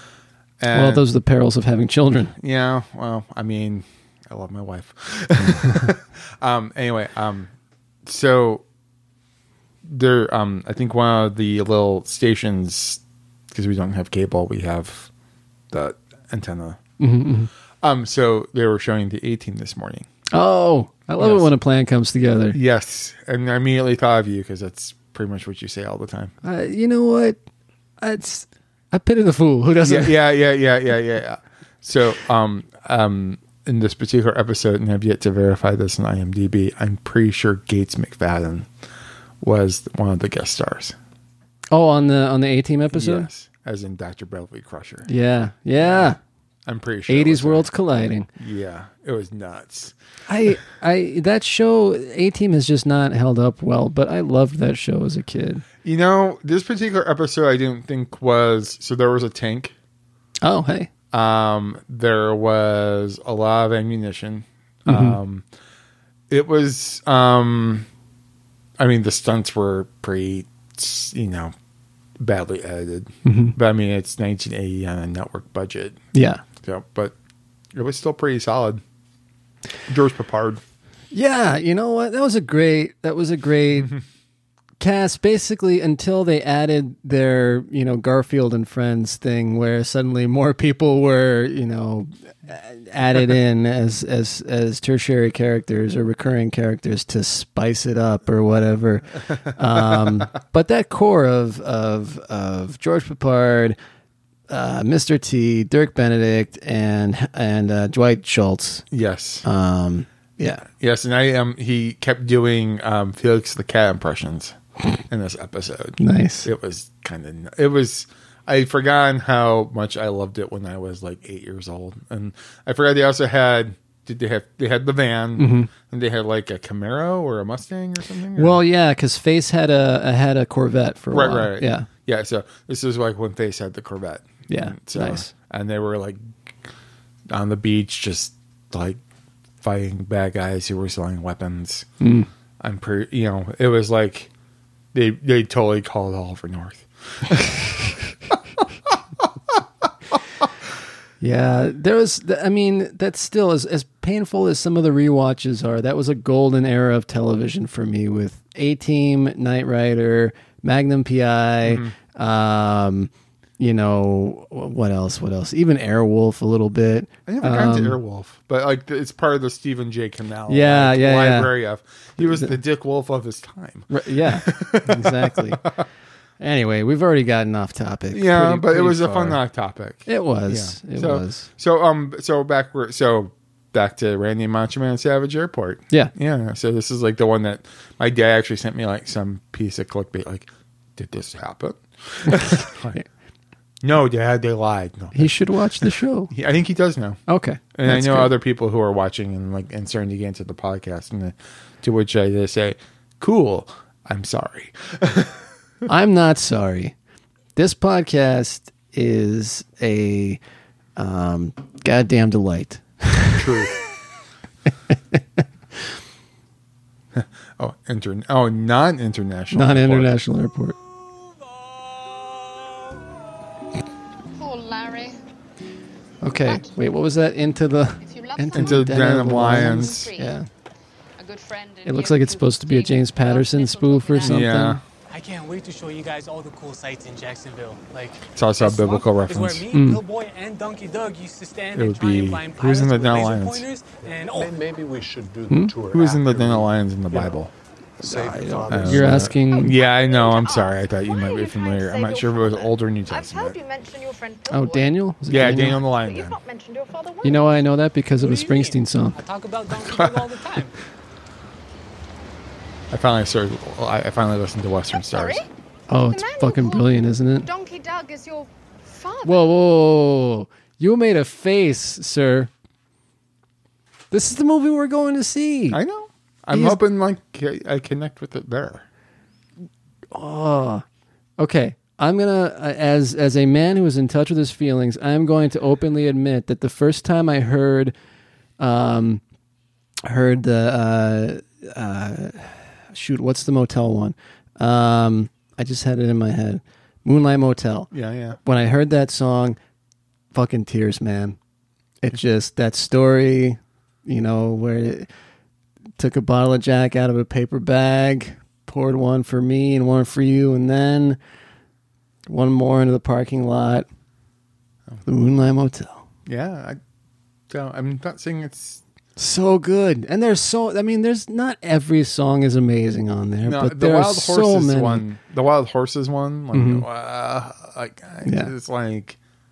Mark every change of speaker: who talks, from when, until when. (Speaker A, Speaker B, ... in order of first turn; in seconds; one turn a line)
Speaker A: 0.6-1.0
Speaker B: 0.7-2.3
Speaker A: 2.4-7.5
Speaker A: 8.1-8.6
Speaker A: 9.8-15.1
Speaker A: 15.7-16.8
Speaker B: 17.0-17.5
Speaker A: 17.8-20.1
Speaker B: 20.3-22.6
Speaker A: 21.2-21.5
Speaker A: 22.5-26.3
Speaker B: 26.4-27.4
Speaker B: 28.0-30.2
Speaker A: 29.8-38.7
Speaker A: 39.4-41.0
Speaker B: 41.7-43.3
Speaker A: 42.9-45.1
Speaker B: 45.1-46.2
Speaker A: 45.8-47.7
Speaker B: 47.1-48.3
Speaker A: 48.4-49.9
Speaker B: 50.3-55.6
Speaker A: 55.8-59.8
Speaker B: 60.4-60.9
Speaker A: 61.1-65.5
Speaker B: 64.9-65.2
Speaker A: 66.3-67.9
Speaker A: 68.8-71.5
Speaker A: 72.2-76.0
Speaker B: 73.2-73.5
Speaker B: 76.1-76.4
Speaker A: 76.6-77.1
Speaker A: 77.7-78.8
Speaker A: 79.9-80.6
Speaker B: 81.1-84.0
Speaker B: 84.8-103.8
Speaker B: 104.5-108.8
Speaker A: 108.9-109.5
Speaker B: 109.5-110.6
Speaker A: 110.7-114.6
Speaker A: 115.1-128.6
Speaker B: 116.0-116.5
Speaker B: 125.4-125.7
Speaker B: 128.4-131.9
Speaker A: 131.1-136.6
Speaker B: 134.5-135.3
Speaker A: 137.3-139.0
Speaker A: 139.6-141.9
Speaker B: 142.0-142.3
Speaker A: 142.6-144.3
Speaker A: 144.9-148.0
Speaker B: 151.2-168.0
Speaker A: 161.6-161.9
Speaker A: 167.3-175.7
Speaker B: 170.5-171.5
Speaker B: 172.2-172.5
Speaker B: 173.9-175.7
Speaker B: 176.4-179.4
Speaker A: 178.1-193.0
Speaker B: 180.1-181.5
Speaker A: 193.8-197.2
Speaker B: 195.1-196.3
Speaker B: 197.3-198.3
Speaker A: 197.8-205.4
Speaker B: 205.9-206.9
Speaker B: 207.6-210.4
Speaker B: 211.0-213.4
Speaker A: 213.4-213.7
Speaker B: 214.9-215.2
Speaker A: 217.1-220.1
Speaker B: 219.5-220.8
Speaker C: 224.4-225.2
Speaker B: 226.2-230.5
Speaker C: 226.4-226.7
Speaker C: 228.0-228.9
Speaker A: 228.5-230.1
Speaker C: 229.6-230.4
Speaker C: 231.2-234.4
Speaker B: 231.8-234.8
Speaker A: 234.2-234.8
Speaker D: 235.1-244.5
Speaker A: 238.3-239.7
Speaker B: 239.7-240.0
Speaker A: 241.7-243.7
Speaker E: 244.1-247.4
Speaker A: 245.9-247.5
Speaker E: 248.0-249.5
Speaker B: 248.5-249.8
Speaker A: 248.7-253.6
Speaker C: 249.4-255.0
Speaker B: 254.5-255.8
Speaker A: 255.3-256.4
Speaker C: 255.9-257.6
Speaker B: 257.2-259.2
Speaker D: 258.2-260.8
Speaker A: 259.8-260.2
Speaker A: 262.9-265.4
Speaker C: 265.0-265.5
Speaker B: 265.9-267.5
Speaker C: 266.1-269.5
Speaker B: 269.2-272.5
Speaker B: 274.1-275.8
Speaker A: 275.7-278.9
Speaker B: 276.5-276.8
Speaker B: 280.1-280.8
Speaker B: 281.4-287.9
Speaker B: 288.6-289.2
Speaker B: 290.1-299.6
Speaker A: 297.9-298.4
Speaker B: 300.3-301.4
Speaker B: 302.0-305.1
Speaker B: 306.0-311.2
Speaker B: 312.3-313.9
Speaker B: 315.1-316.0
Speaker A: 316.3-316.8
Speaker A: 317.5-318.8
Speaker B: 319.2-325.0
Speaker A: 323.4-329.2
Speaker B: 326.5-326.9
Speaker B: 328.2-328.5